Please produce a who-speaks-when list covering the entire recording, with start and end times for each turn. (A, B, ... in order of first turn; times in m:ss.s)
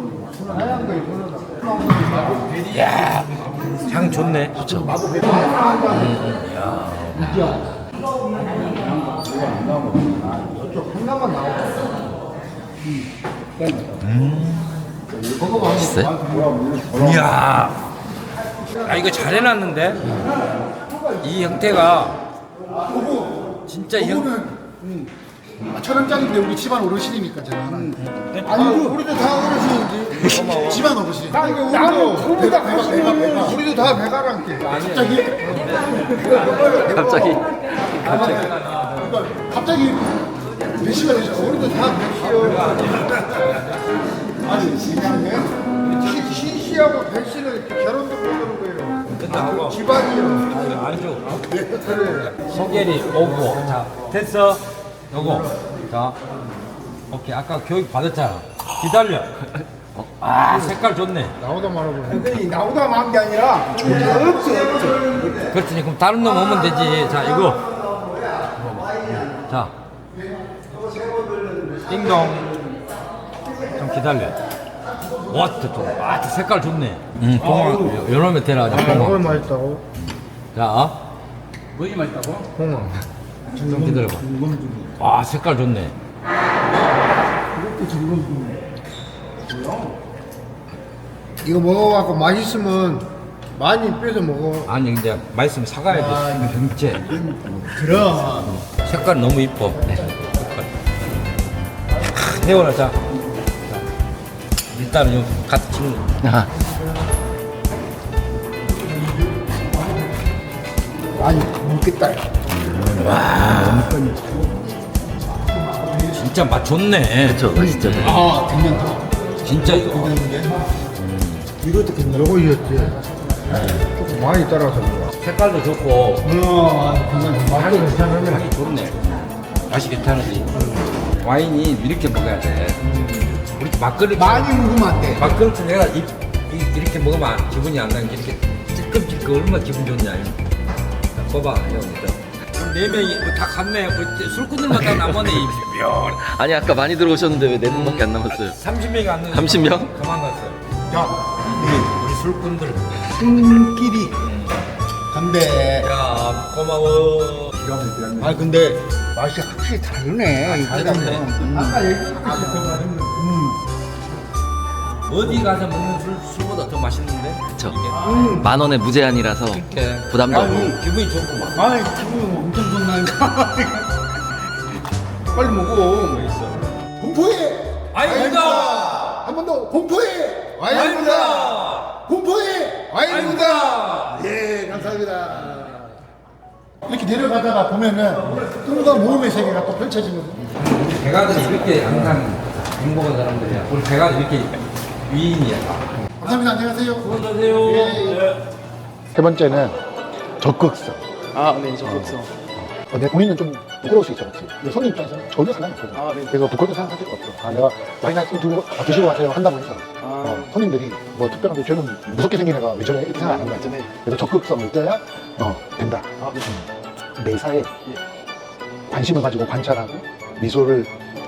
0:00.2-0:02.6 A
0:02.7-0:04.9 B
0:04.8-0:06.2 A
0:05.7-0:07.6 B
0:07.2-0:07.6 A
0:08.6-0:11.9 A
0:13.6-0:13.9 A
0:14.0-0:14.7 B
0:15.2-0:17.0 A
0:15.8-0:16.1 C
0:15.8-0:16.1 D
0:16.9-0:17.8 B
0:18.8-0:20.2 B
0:21.2-0:22.2 B
0:23.0-0:23.2 E
0:23.7-0:24.3 B
0:24.0-0:24.6 E
0:25.7-0:28.0 E
0:28.0-0:28.5 B
0:28.4-0:30.3 A
0:28.6-0:28.9 E
0:30.2-0:31.0 B
0:30.3-0:33.7 E
0:31.3-0:34.7 A
0:34.6-0:35.7 E
0:34.7-0:37.0 B
0:36.1-0:37.4 A
0:37.9-0:39.0 B
0:38.0-0:40.0 E
0:40.8-0:41.6 E
0:40.8-0:42.7 A
0:42.3-0:43.9 B
0:44.4-0:50.5 A
0:49.2-0:49.8 B
0:50.5-0:56.2 B
0:51.4-0:52.4 A
0:57.1-0:59.3 B
1:00.2-1:01.3 B
1:01.4-1:05.4 A
1:03.8-1:04.3 B
1:05.3-1:07.7 B
1:08.6-1:09.7 B
1:11.2-1:11.7 A
1:11.8-1:12.5 B
1:13.7-1:14.4 B
1:15.3-1:19.4 B
1:18.7-1:19.8 A
1:20.5-1:21.0 B
1:21.9-1:22.3 B
1:22.5-1:23.0 A
1:23.6-1:24.8 A
1:23.6-1:24.3 B
1:25.0-1:25.9 B
1:27.5-1:28.6 A
1:31.4-1:34.7 A
1:34.6-1:37.2 B
1:37.1-1:38.6 A
1:38.7-1:40.7 B
1:42.1-1:43.0 B
1:44.7-1:46.2 B
1:51.2-1:52.3 A
1:52.5-1:54.1 B
1:53.5-1:54.4 A
1:56.1-1:58.3 B
1:57.2-1:58.1 D
1:57.3-1:57.7 C
1:58.0-1:59.0 A
1:59.4-2:00.3 B
1:59.8-2:00.5 A
2:00.9-2:01.5 B
2:01.6-2:03.0 A
2:03.5-2:05.1 A
2:05.2-2:06.3 B
2:06.2-2:08.4 A
2:07.4-2:10.5 B
2:11.2-2:20.4 B
2:14.2-2:15.3 A
2:21.1-2:26.2 B
2:26.4-2:28.5 D
2:26.4-2:28.2 C
2:27.6-2:30.6 B
2:29.3-2:29.9 D
2:30.9-2:31.9 A
2:31.5-2:33.4 B
2:33.2-2:34.1 A
2:34.2-2:34.6 B
2:35.1-2:35.9 A
2:35.8-2:37.6 B
2:37.7-2:43.6 A
2:38.2-2:38.7 B
2:40.4-2:41.8 B
2:45.0-2:48.4 B
2:48.0-2:48.5 A
2:48.4-2:49.6 C
2:48.6-2:50.4 D
2:49.5-2:51.7 B
2:50.3-2:50.8 A
2:51.6-2:53.8 A
2:55.3-2:56.2 A
2:55.8-2:56.6 B
2:57.0-2:57.8 E
2:57.9-2:59.1 B
2:58.1-2:59.2 A
2:59.0-3:00.7 E
3:00.6-3:01.6 A
3:00.7-3:02.0 B
3:02.0-3:03.0 E
3:02.9-3:05.0 A
3:03.0-3:04.3 B
3:04.7-3:05.4 E
3:06.9-3:10.5 E
3:10.5-3:15.8 B
3:16.0-3:17.0 E
3:17.0-3:18.4 B
3:17.6-3:18.2 E
3:19.1-3:19.8 E
3:20.4-3:21.0 E
3:21.4-3:22.2 D
3:21.8-3:22.2 E
3:22.8-3:36.6 E
3:30.0-3:30.3 D
3:37.2-3:37.7 E
3:38.9-3:40.9 E